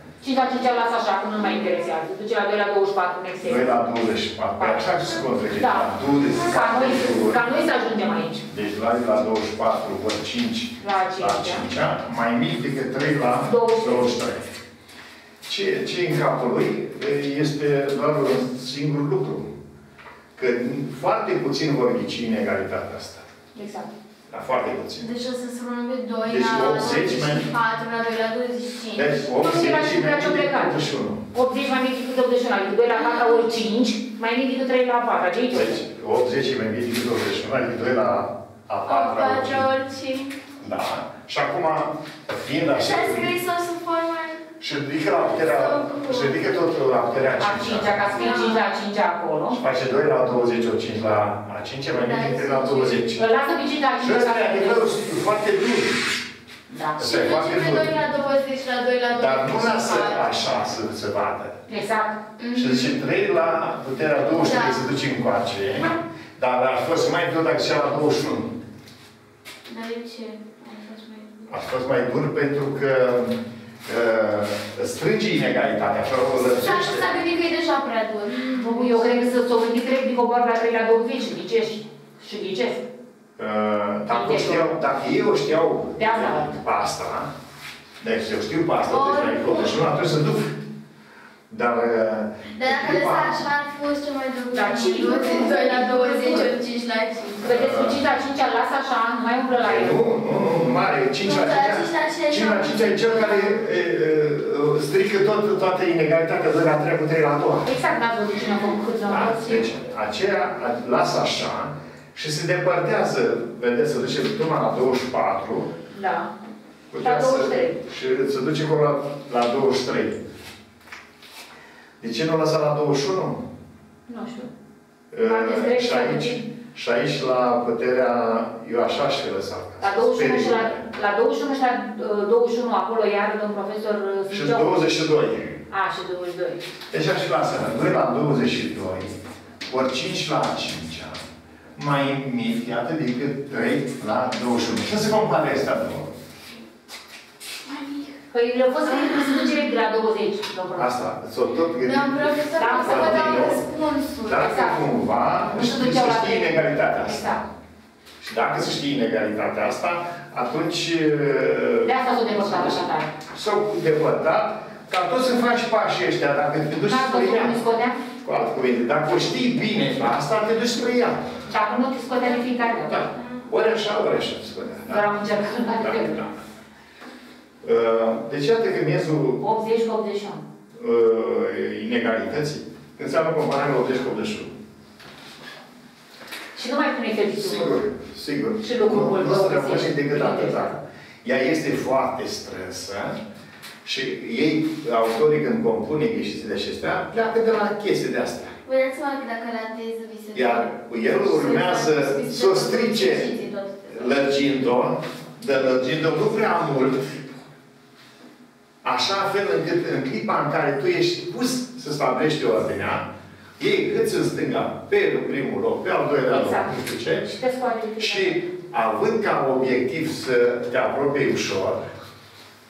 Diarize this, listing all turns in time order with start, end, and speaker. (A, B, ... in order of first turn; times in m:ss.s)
0:00.2-0:03.7 A
0:03.4-0:07.5 B
0:04.6-0:04.9 A
0:05.5-0:08.5 A
0:08.5-0:14.5 B
0:10.8-0:11.7 A
0:13.4-0:14.2 A
0:15.4-0:19.5 B
0:20.4-0:23.2 B
0:23.6-0:23.9 A
0:24.3-0:25.1 B
0:25.0-0:29.3 C
0:26.2-0:27.5 B
0:28.9-0:31.2 B
0:29.3-0:35.8 A
0:35.5-0:39.7 B
0:38.9-0:40.4 C
0:40.6-0:43.4 B
0:42.7-0:44.4 C
0:44.6-0:48.3 B
0:45.1-0:46.8 C
0:47.4-0:49.6 A
0:48.1-0:48.7 C
0:49.5-0:53.2 B
0:51.9-0:53.1 C
0:53.2-0:55.0 A
0:54.0-0:56.0 B
0:56.7-0:57.1 A
0:57.0-0:58.0 B
0:57.0-1:00.5 C
0:59.1-1:01.6 B
1:01.7-1:02.2 A
1:02.4-1:03.0 C
1:02.6-1:08.5 B
1:04.3-1:04.9 C
1:09.7-1:11.5 C
1:11.5-1:17.2 B
1:16.5-1:19.2 C
1:18.5-1:22.8 A
1:23.4-1:27.3 B
1:24.1-1:24.8 A
1:26.0-1:26.6 A
1:28.0-1:30.6 B
1:28.9-1:29.8 C
1:31.5-1:33.5 B
1:32.5-1:37.5 C
1:34.5-1:36.5 A
1:37.4-1:38.0 B
1:37.4-1:40.0 A
1:39.6-1:47.7 B
1:41.2-1:43.6 C
1:47.6-1:49.7 A
1:49.1-1:55.7 B
1:55.9-1:56.3 A
1:56.9-2:00.2 B
1:57.0-1:57.8 A
2:02.0-2:03.4 B
2:04.1-2:04.5 A
2:05.1-2:10.9 B
2:05.2-2:06.4 A
2:09.8-2:14.9 A
2:14.3-2:15.6 B
2:15.7-2:16.6 A
2:16.9-2:21.2 B
2:21.8-2:26.1 B
2:27.7-2:28.1 C
2:28.3-2:30.9 A
2:28.9-2:29.5 C
2:30.8-2:33.6 B
2:31.8-2:34.7 C
2:32.6-2:33.6 A
2:34.2-2:37.3 B
2:34.4-2:37.4 A
2:38.2-2:47.6 B
2:41.8-2:43.1 A
2:46.8-2:48.0 A
2:48.2-2:51.3 B
2:51.5-2:53.1 A
2:52.9-2:55.1 B
2:54.9-2:56.2 A
2:55.8-2:56.3 B
2:57.6-2:59.4 B
2:59.4-3:00.4 A
3:00.7-3:04.5 B
3:06.6-3:07.8 A
3:07.4-3:13.2 B
3:08.6-3:10.8 A
3:13.8-3:18.6 B
3:18.6-3:24.3 C
3:20.3-3:23.3 B
3:23.9-3:27.2 B
3:28.8-3:33.1 B
3:33.6-3:37.4 B
3:36.3-3:36.7 A
3:37.4-3:38.5 A
3:38.0-3:41.9 B